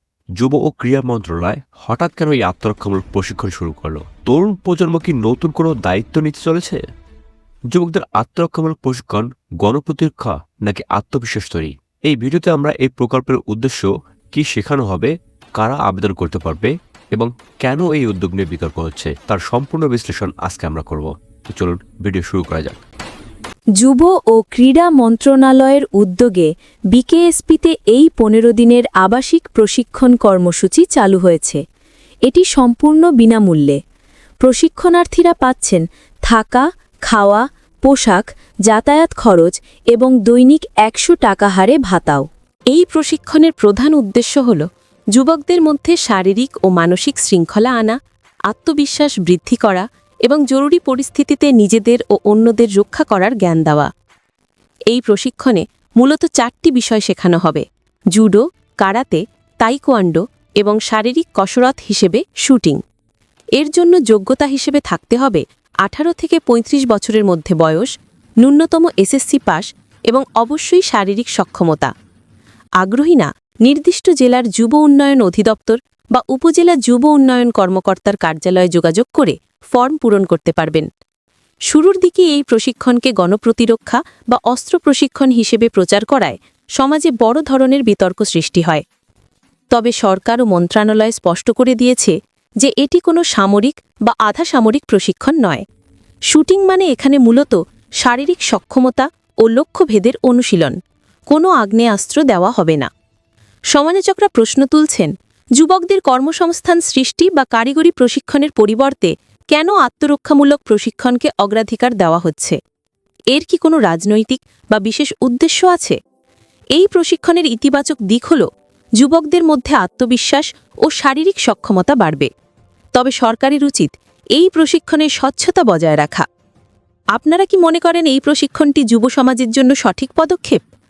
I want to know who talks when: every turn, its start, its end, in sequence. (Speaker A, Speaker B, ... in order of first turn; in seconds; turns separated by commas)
Speaker A: 0.4-6.8, Speaker A: 7.7-22.8, Speaker B: 23.9-26.4, Speaker C: 25.6-26.3, Speaker B: 27.0-31.6, Speaker C: 27.0-27.6, Speaker C: 29.4-29.9, Speaker B: 32.3-33.8, Speaker B: 34.5-42.2, Speaker C: 34.6-35.1, Speaker C: 42.7-53.9, Speaker C: 54.9-62.8, Speaker C: 63.6-67.9, Speaker C: 68.4-71.9, Speaker C: 72.8-80.9, Speaker C: 81.7-88.8, Speaker C: 89.7-95.7, Speaker C: 96.3-102.9, Speaker C: 103.7-112.6, Speaker C: 113.3-116.0, Speaker C: 116.8-118.5, Speaker C: 119.0-122.3, Speaker C: 123.0-126.3, Speaker C: 127.2-130.6